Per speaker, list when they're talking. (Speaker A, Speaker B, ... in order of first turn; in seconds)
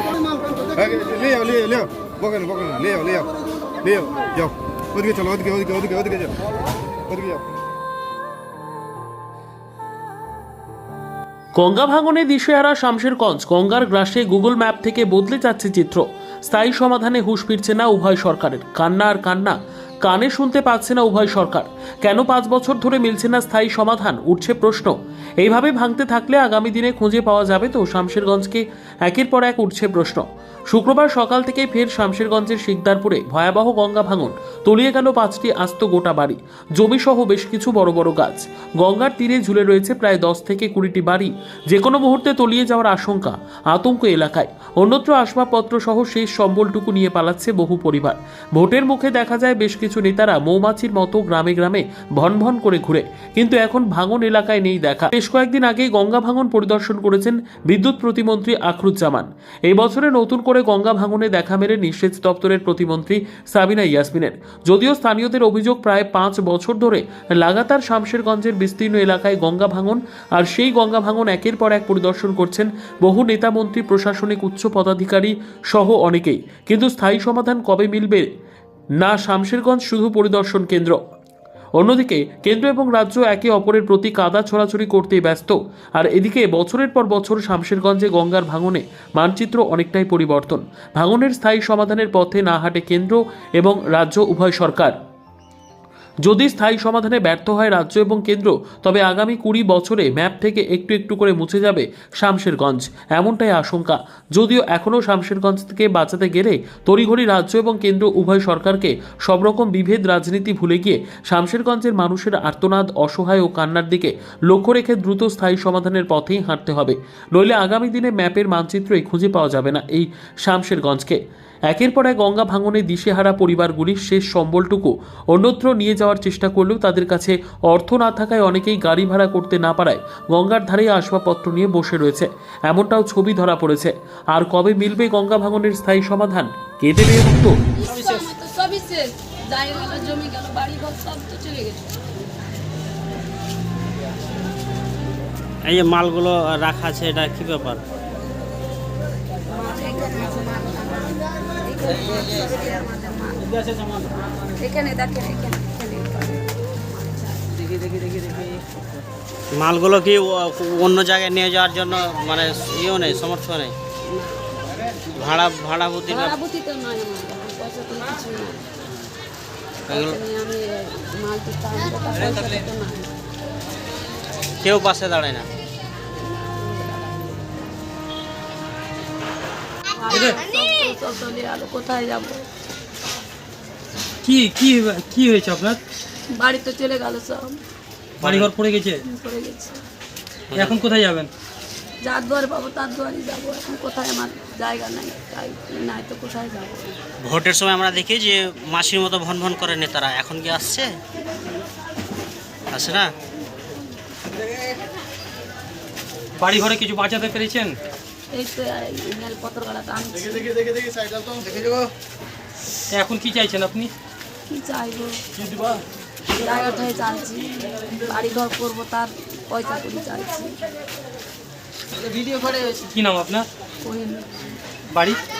Speaker A: 0.7-3.3, 3.8-6.4, 7.1-7.4
Speaker B: 11.6-78.3, 79.0-81.0, 81.8-94.9, 96.3-137.6
Speaker C: 137.7-142.0, 149.5-157.7, 164.1-164.5, 166.1-168.7, 169.9-173.1, 176.2-177.5, 179.9-182.4, 186.3-187.6, 189.0-189.8, 192.0-197.0, 208.3-210.6, 214.5-215.2, 216.3-220.5, 222.2-222.7, 223.8-224.3
Speaker D: 145.6-147.8, 159.5-163.8, 165.1-166.4, 169.9-170.2, 174.6-175.5, 188.2-188.5, 190.5-190.8, 197.2-200.9, 202.7-203.1
Speaker E: 184.2-185.8, 188.2-189.0, 190.6-191.3, 206.4-207.8, 212.9-213.9, 222.8-223.5, 224.9-225.2